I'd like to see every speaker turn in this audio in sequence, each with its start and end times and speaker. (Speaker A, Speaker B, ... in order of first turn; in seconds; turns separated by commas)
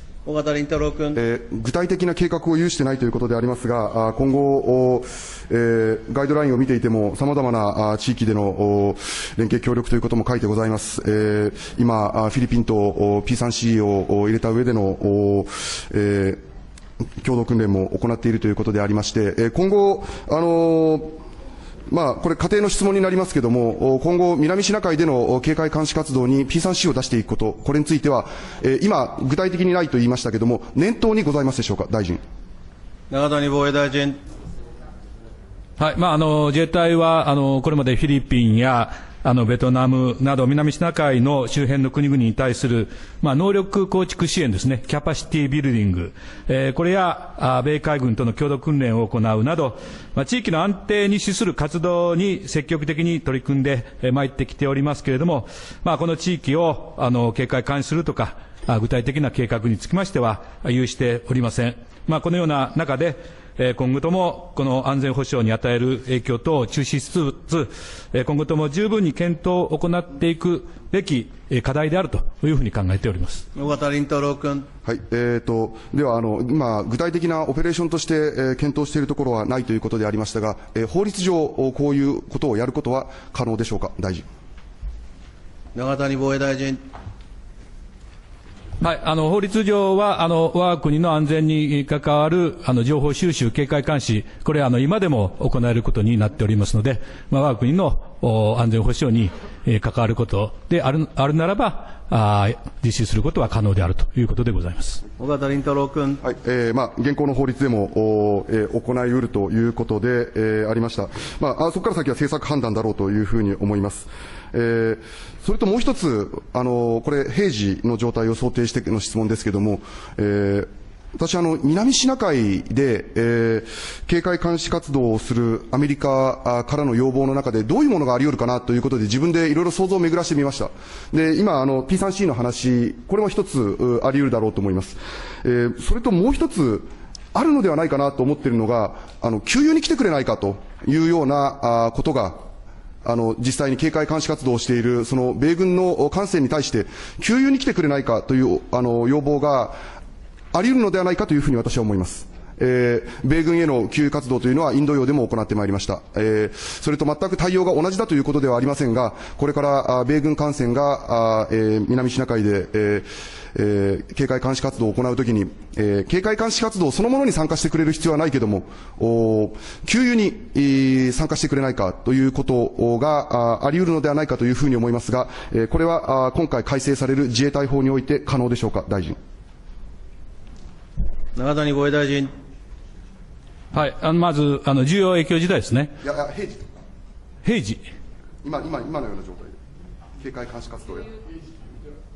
Speaker A: 0.2-1.2, Speaker B: 1.1-16.4, Speaker B: 17.2-21.2, Speaker B: 21.9-32.2, Speaker A: 33.1-34.2, Speaker C: 35.8-73.4, Speaker A: 73.5-74.7, Speaker B: 74.8-84.2, Speaker A: 85.7-86.8, Speaker C: 88.8-105.0, Speaker A: 105.2-106.2, Speaker B: 106.2-142.4, Speaker B: 143.0-149.8, Speaker B: 150.5-179.2, Speaker A: 181.3-182.3, Speaker C: 183.7-185.9, Speaker B: 186.0-186.7, Speaker C: 187.4-187.8, Speaker B: 188.4-189.6, Speaker B: 190.2-191.1